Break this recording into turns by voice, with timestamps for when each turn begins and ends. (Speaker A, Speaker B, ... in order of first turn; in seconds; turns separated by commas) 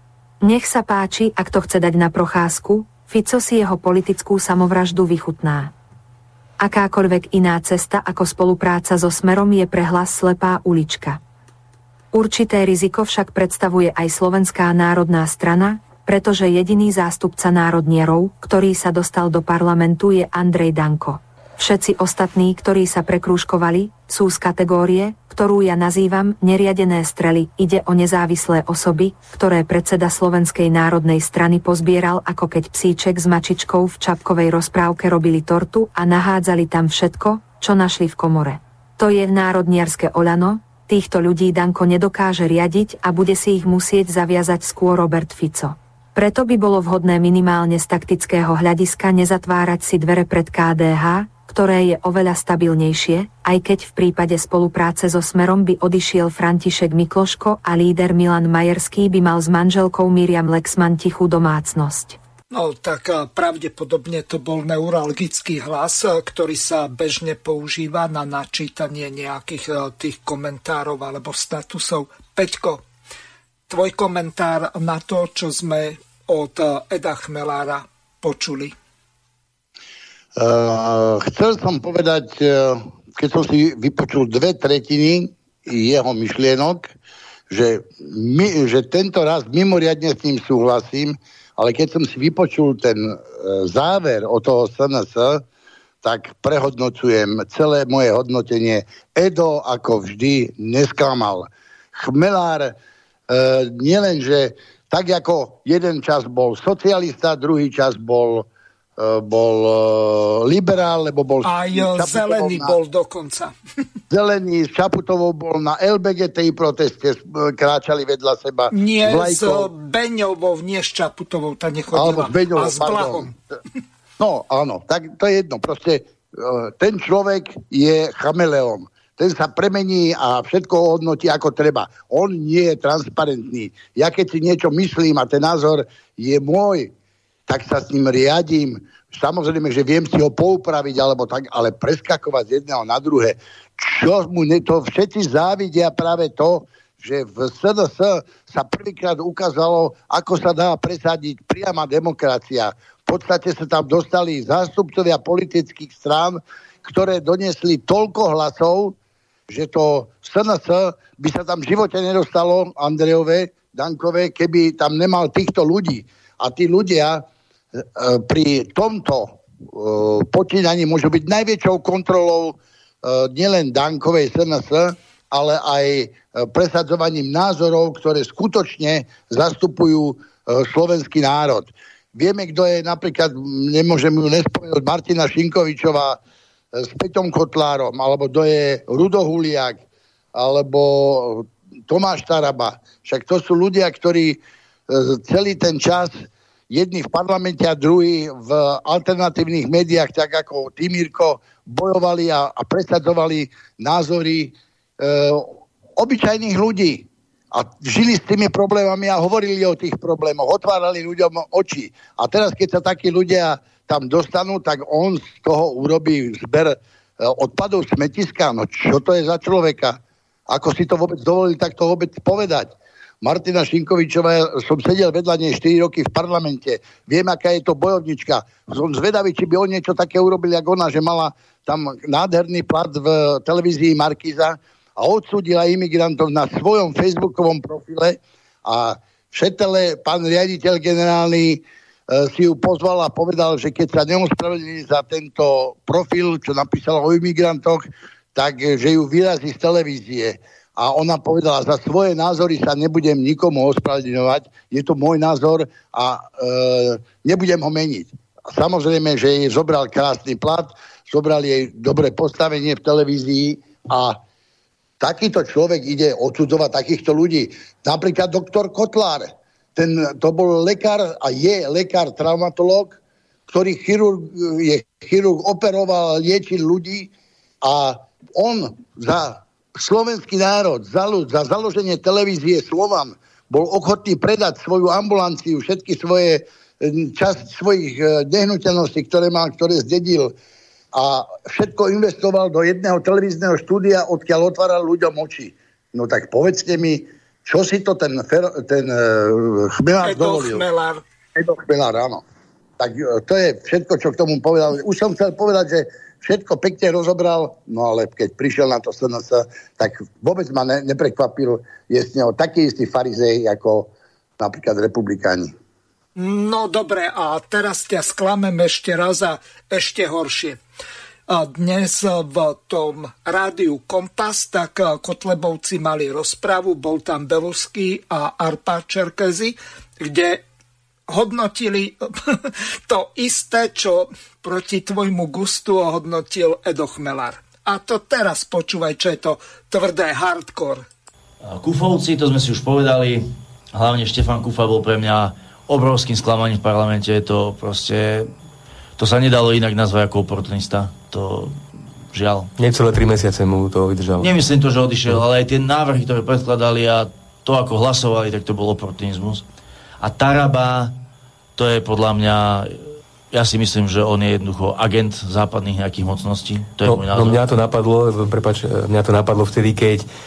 Speaker A: 0.4-5.7, Speaker A: 6.6-11.2, Speaker A: 12.1-62.2, Speaker B: 62.5-72.8, Speaker B: 73.7-78.7, Speaker C: 80.3-86.9, Speaker C: 87.5-95.4, Speaker C: 96.0-102.8, Speaker C: 103.3-112.8, Speaker B: 111.4-113.5, Speaker C: 114.1-119.7, Speaker B: 118.7-123.3, Speaker C: 121.9-123.3, Speaker C: 124.2-136.9, Speaker C: 137.5-158.9, Speaker C: 159.5-167.2, Speaker C: 167.8-186.2, Speaker C: 186.7-189.8, Speaker C: 190.3-264.2, Speaker C: 265.0-290.3, Speaker C: 290.9-300.6, Speaker B: 300.0-301.0, Speaker C: 301.3-302.2, Speaker C: 302.8-315.5, Speaker B: 316.2-320.6, Speaker B: 321.3-330.4, Speaker B: 331.1-340.8, Speaker D: 341.4-348.3, Speaker D: 349.0-352.5, Speaker E: 352.6-354.3, Speaker D: 354.2-359.4, Speaker D: 360.0-360.9, Speaker D: 361.6-367.5, Speaker E: 366.8-370.1